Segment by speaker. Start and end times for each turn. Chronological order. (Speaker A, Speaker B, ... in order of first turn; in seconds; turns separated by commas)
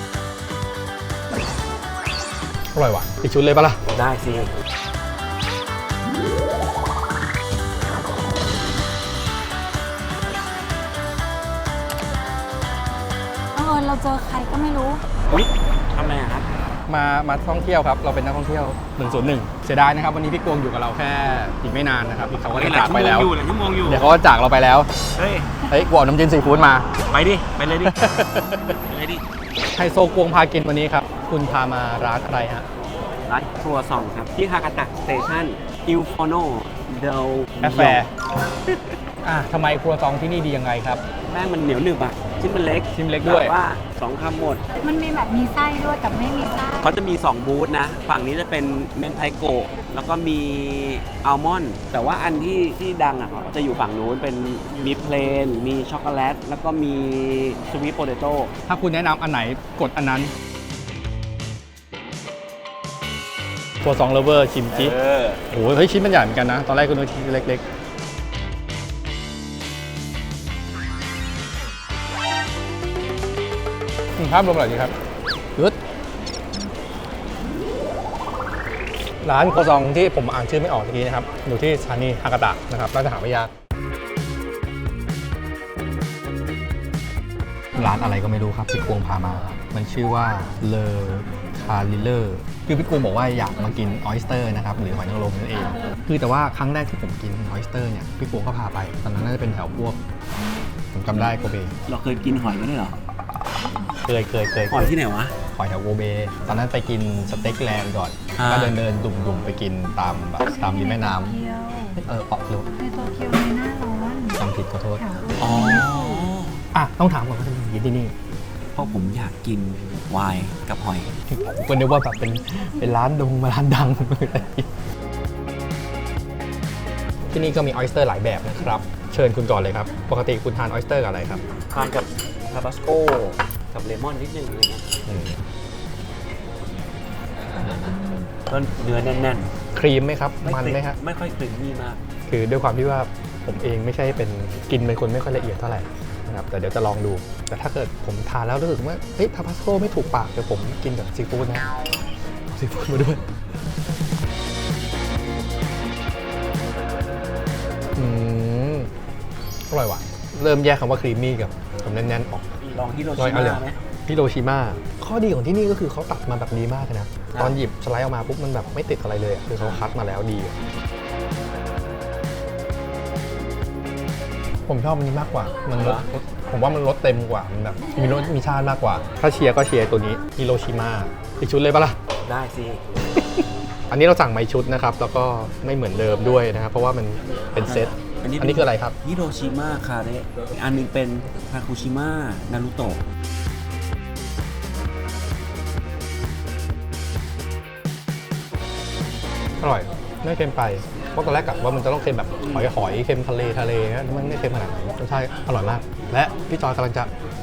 Speaker A: 2.7-3.8, Speaker B: 3.9-4.5, Speaker C: 13.6-15.0, Speaker B: 15.3-16.5, Speaker A: 16.9-23.3, Speaker B: 22.5-24.1, Speaker A: 23.8-24.9, Speaker B: 25.2-25.5, Speaker A: 25.7-26.9, Speaker B: 27.1-27.9, Speaker A: 27.8-28.8, Speaker B: 28.9-29.2, Speaker A: 29.7-32.7, Speaker B: 33.3-38.0, Speaker A: 37.6-38.1, Speaker A: 39.2-41.0, Speaker B: 41.3-44.6, Speaker A: 42.9-43.5, Speaker C: 44.8-46.9, Speaker B: 46.8-58.5, Speaker A: 58.7-60.3, Speaker A: 63.8-64.9, Speaker B: 64.7-65.4, Speaker A: 65.5-67.6, Speaker A: 74.2-74.9, Speaker A: 79.2-83.5, Speaker A: 87.8-100.0, Speaker A: 100.9-101.7, Speaker B: 101.9-103.0, Speaker A: 104.0-104.9, Speaker B: 104.7-105.3, Speaker A: 105.5-111.4, Speaker B: 108.3-108.8, Speaker C: 110.4-112.0, Speaker A: 112.0-112.7, Speaker C: 112.7-114.4, Speaker A: 114.4-115.0, Speaker C: 115.0-116.2, Speaker B: 115.4-116.6, Speaker A: 116.7-118.1, Speaker B: 118.7-121.1, Speaker A: 121.3-124.7, Speaker A: 127.3-131.4, Speaker B: 131.7-134.9, Speaker A: 135.1-135.4, Speaker B: 137.6-139.5, Speaker C: 138.0-138.3, Speaker A: 139.7-141.0, Speaker B: 140.4-142.0, Speaker A: 142.3-151.7, Speaker A: 152.5-153.2, Speaker A: 158.0-158.9, Speaker A: 159.7-170.6, Speaker B: 162.6-163.8, Speaker A: 174.7-182.0, Speaker B: 175.8-176.1, Speaker B: 182.2-182.8, Speaker A: 183.2-188.9, Speaker B: 187.6-193.0, Speaker A: 199.6-207.1, Speaker B: 202.4-202.7